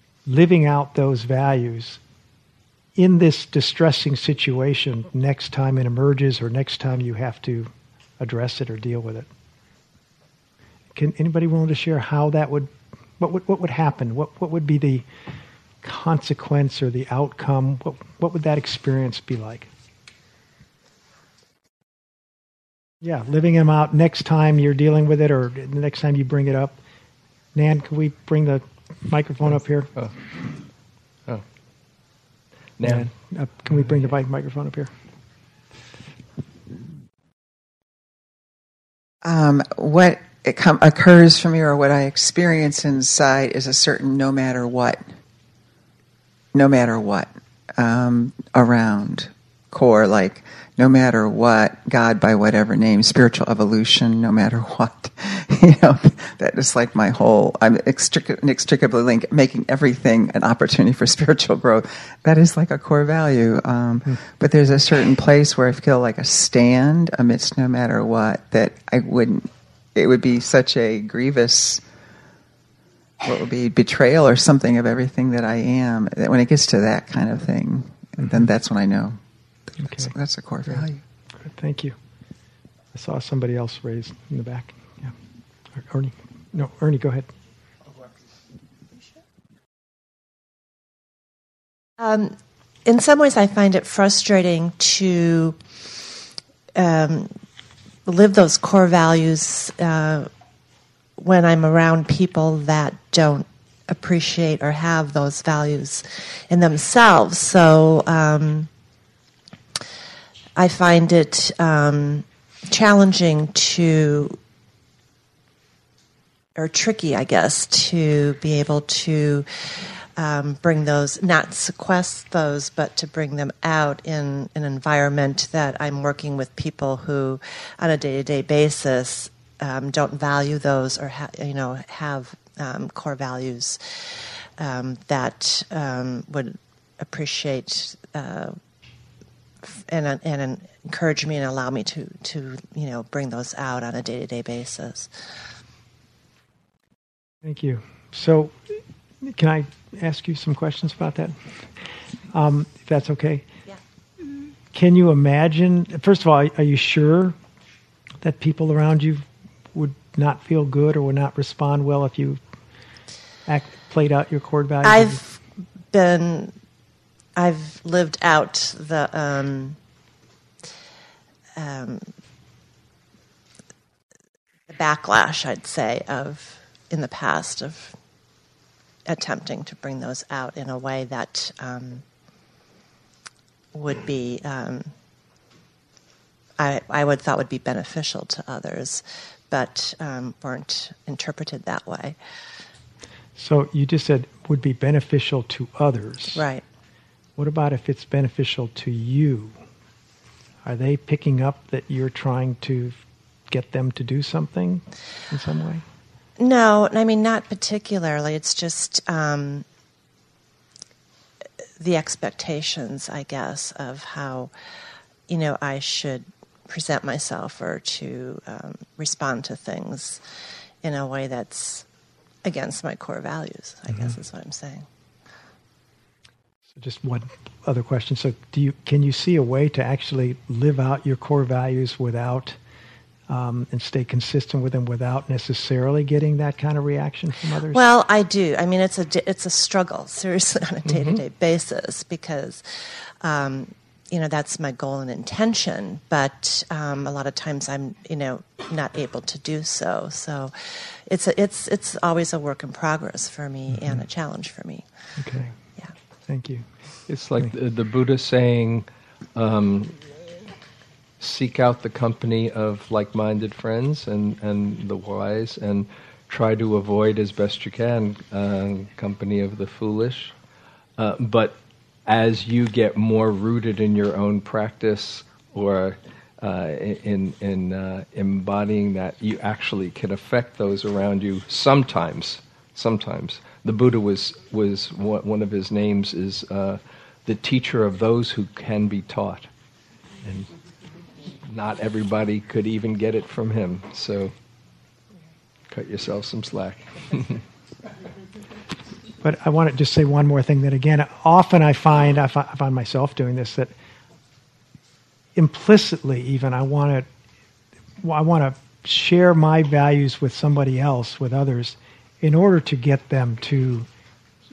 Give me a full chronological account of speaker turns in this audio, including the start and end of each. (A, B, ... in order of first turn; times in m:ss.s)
0:00.2-0:02.0 A
0:03.0-0:09.3 A
0:10.9-0:15.0 A
0:15.8-0:19.7 A
0:23.0-0:26.8 A
0:27.5-0:29.9 A
0:32.8-0:33.1 B
0:32.8-0:34.9 A
0:39.2-0:45.0 C
0:46.5-1:11.8 C
1:13.2-1:19.2 C
1:19.8-1:21.0 C
1:19.8-1:20.1 A
1:21.4-1:22.0 A
1:22.9-1:25.1 A
1:25.8-1:27.3 A
1:32.0-1:35.6 D
1:36.7-1:37.3 D
1:38.0-1:40.3 D
1:41.2-1:48.7 D
1:50.6-1:54.4 D
1:56.6-2:18.6 D
2:19.6-2:25.1 D
2:27.4-2:31.4 A
2:32.3-2:33.4 A
2:34.7-2:37.4 A
2:38.2-2:42.4 A
2:43.4-2:45.2 A
2:44.8-2:45.4 D
2:45.9-2:46.5 D
2:47.4-2:49.8 D
2:51.6-2:52.1 D
2:54.7-2:57.9 D
2:59.1-3:02.0 D
3:03.7-3:04.9 D
3:06.6-3:12.2 D
3:13.4-3:16.4 A
3:16.3-3:16.6 D
3:17.4-3:19.6 A
3:20.6-3:23.0 A
3:23.5-3:25.8 A
3:26.4-3:29.6 D
3:31.8-3:34.5 D
3:35.3-3:40.2 D
3:40.8-3:41.8 D
3:42.4-3:44.8 D
3:46.8-3:52.6 A
3:53.3-3:57.8 A
3:57.7-4:02.6 D
4:00.9-4:01.2 B
4:03.2-4:14.8 D
4:15.2-4:15.5 A
4:16.3-4:16.6 A
4:17.1-4:20.0 B
4:21.2-4:30.3 B
4:31.0-4:49.5 B
4:50.2-4:50.5 B
4:51.5-4:54.3 B
4:55.7-4:57.4 B
4:59.2-5:03.7 A
5:05.4-5:07.0 A
5:08.0-5:13.9 A